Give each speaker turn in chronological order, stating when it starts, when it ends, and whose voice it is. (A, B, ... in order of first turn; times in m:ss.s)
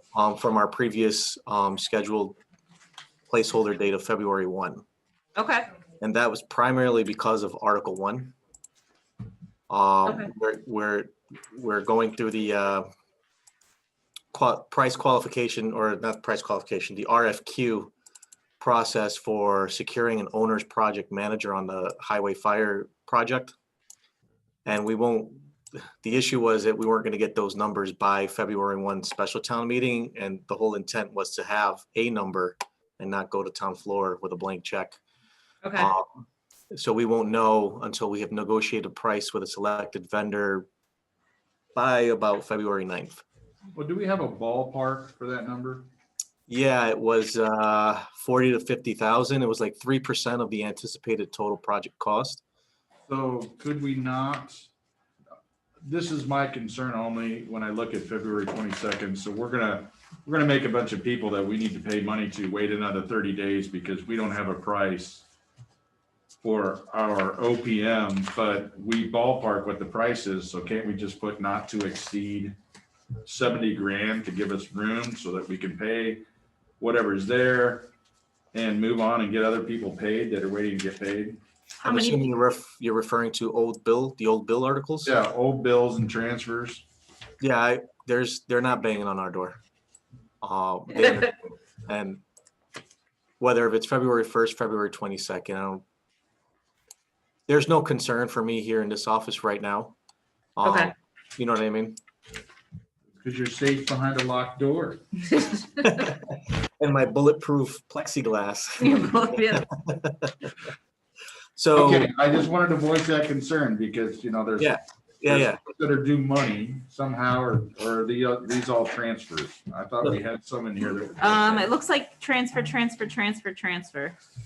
0:00.1-0:02.4 A
0:03.3-0:04.8 A
0:05.4-0:05.7 B
0:06.0-0:08.4 A
0:09.7-0:12.9 A
0:10.1-0:10.3 B
0:14.3-0:17.9 A
0:18.6-0:23.5 A
0:24.6-0:35.0 A
0:35.6-0:35.9 B
0:35.8-0:40.7 A
0:41.8-0:43.2 A
0:43.7-0:45.9 C
0:46.5-0:52.4 A
0:53.1-0:54.7 C
0:55.8-1:05.3 C
1:06.4-1:12.6 C
1:13.2-1:16.2 C
1:16.8-1:17.9 C
1:18.5-1:21.4 C
1:21.8-1:22.3 B
1:21.8-1:25.1 A
1:25.0-1:26.8 C
1:27.4-1:29.6 A
1:30.4-1:32.2 A
1:33.4-1:35.8 A
1:37.5-1:40.0 A
1:40.6-1:42.0 A
1:40.6-1:40.9 B
1:43.2-1:45.0 C
1:45.4-1:45.9 B
1:45.8-1:50.5 A
1:48.8-1:49.7 B
1:51.6-1:52.1 A
1:51.7-2:01.7 C
1:54.6-1:55.6 A
2:01.2-2:04.2 B